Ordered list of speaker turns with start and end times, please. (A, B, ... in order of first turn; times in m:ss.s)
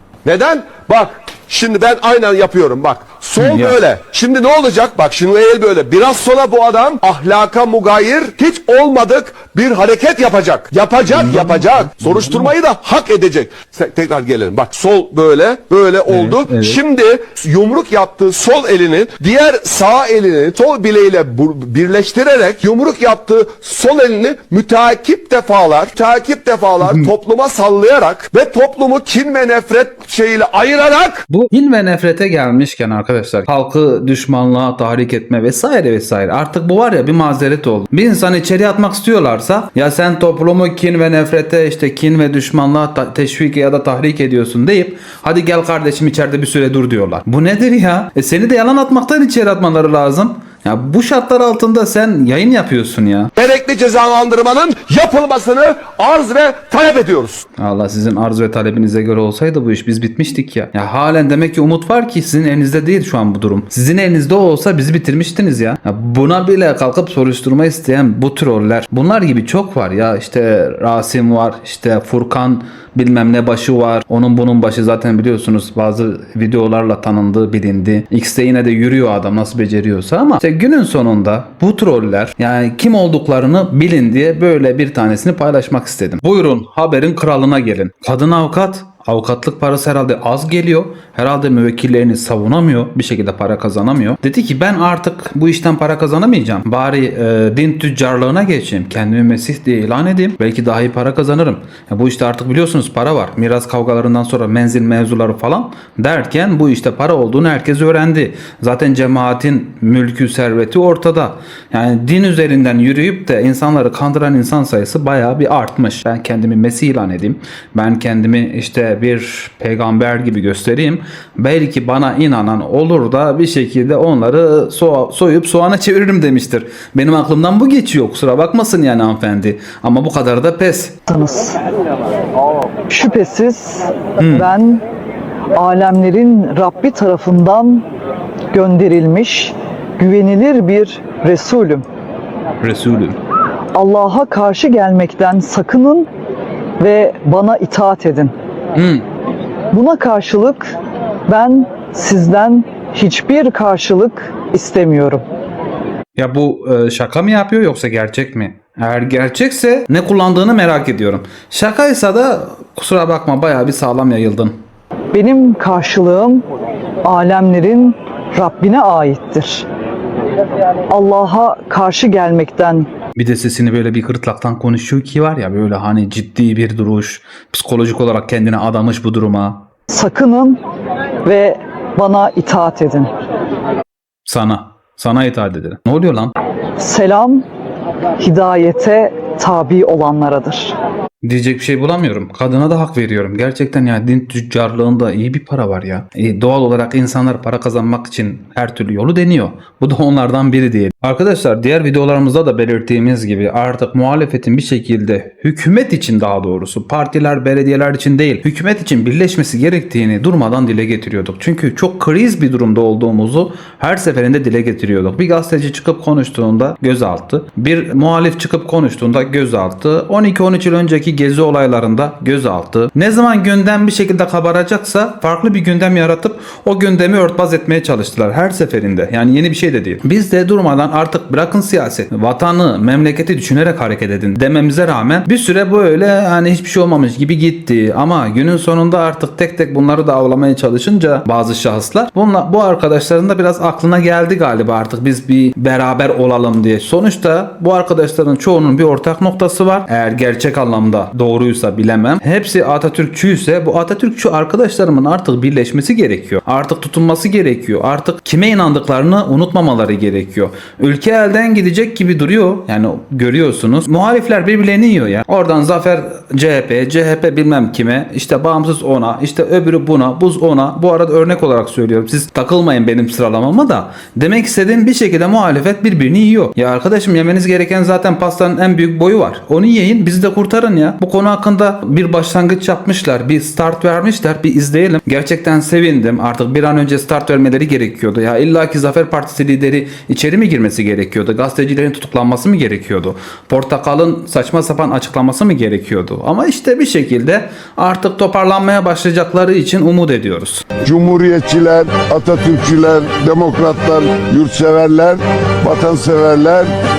0:00.2-0:31.2 A
0:03.4-0:03.8 B
0:11.1-0:12.5 B
0:16.1-0:16.8 B
0:31.3-0:53.3 B
0:53.4-0:57.4 A
0:57.6-2:11.0 B
2:11.1-2:11.6 C
2:12.9-2:14.8 C
2:14.2-2:14.5 B
2:15.6-2:17.8 C
2:18.5-2:21.8 C
2:22.6-2:23.2 B
2:23.8-2:26.1 C
2:26.8-2:28.3 C
2:28.7-2:29.0 B
2:29.7-2:30.7 C
2:31.3-2:35.2 C
2:36.2-2:44.6 B
2:45.1-2:46.4 C
2:47.1-2:49.6 C
2:50.9-2:52.9 C
2:53.1-2:59.7 B
2:59.9-3:00.6 C
3:01.2-3:03.1 C
3:04.2-3:06.3 B
3:06.8-3:07.4 C
3:08.2-3:10.7 C
3:11.2-5:00.6 B
5:00.8-5:06.7 D